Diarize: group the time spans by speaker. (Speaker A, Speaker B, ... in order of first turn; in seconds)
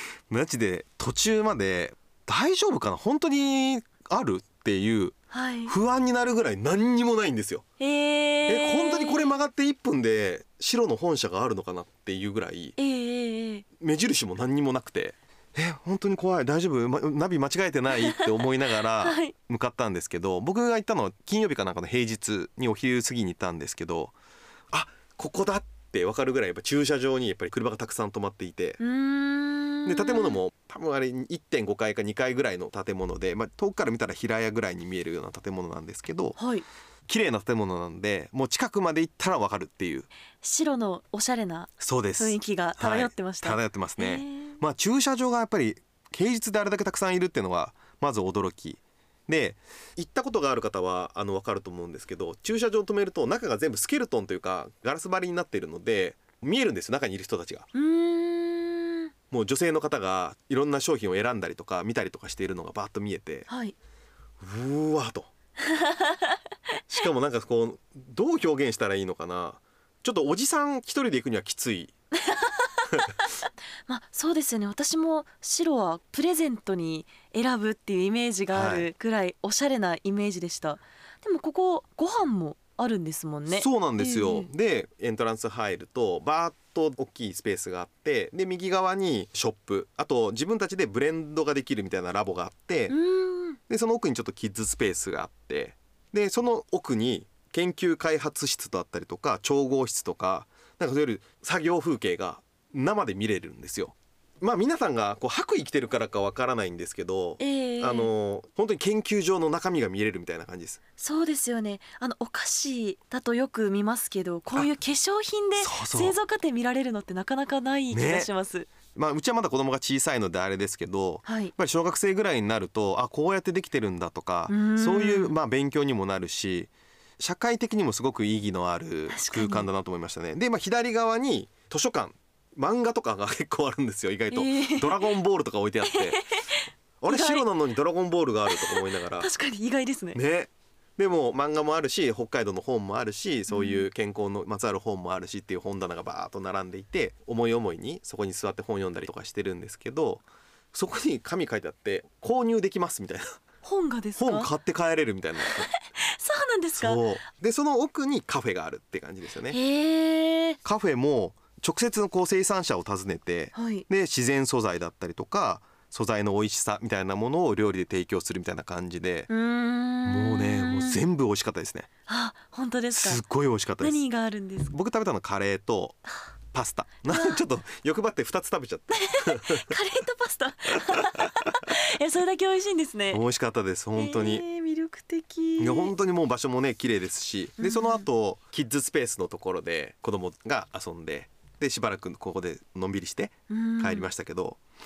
Speaker A: 0.3-5.2, 5.7-7.6, 8.5-12.8, 13.8-24.1, 24.7-28.8, 29.9-36.4, 37.1-40.1, 41.8-57.7, 59.3-63.5, 64.4-65.3, 66.9-71.9, 78.5-78.9, 83.5-93.0, 93.7-110.8, 115.6-116.2, 117.9-118.3, 119.0-136.2, 137.0-139.3, 140.1-153.4, 154.2-155.7, 156.8-159.6, 160.6-169.3, 170.1-171.9, 172.9-174.0, 174.7-176.0, 176.5-179.7, 183.1-184.4, 185.6-194.6
Speaker B: 5.3-5.8, 7.8-9.4, 12.8-13.7, 17.9-18.3, 19.0-19.3, 28.8-30.4, 36.4-36.6, 40.4-44.6, 57.7-59.1, 63.5-63.8, 65.7-66.4, 72.2-73.3, 73.9-84.5, 92.9-93.6, 107.4-108.1, 111.0-118.7, 121.2-121.5, 124.5-125.4, 129.1-129.7, 134.3-135.1, 135.9-137.4, 138.5-140.2, 143.5-143.9, 153.6-154.5, 155.5-157.0, 159.5-160.6, 163.5-163.8, 169.3-171.0, 172.1-173.2, 173.8-174.7, 177.1-177.4, 178.9-183.2, 184.0-185.9, 187.6-188.1, 193.5-194.1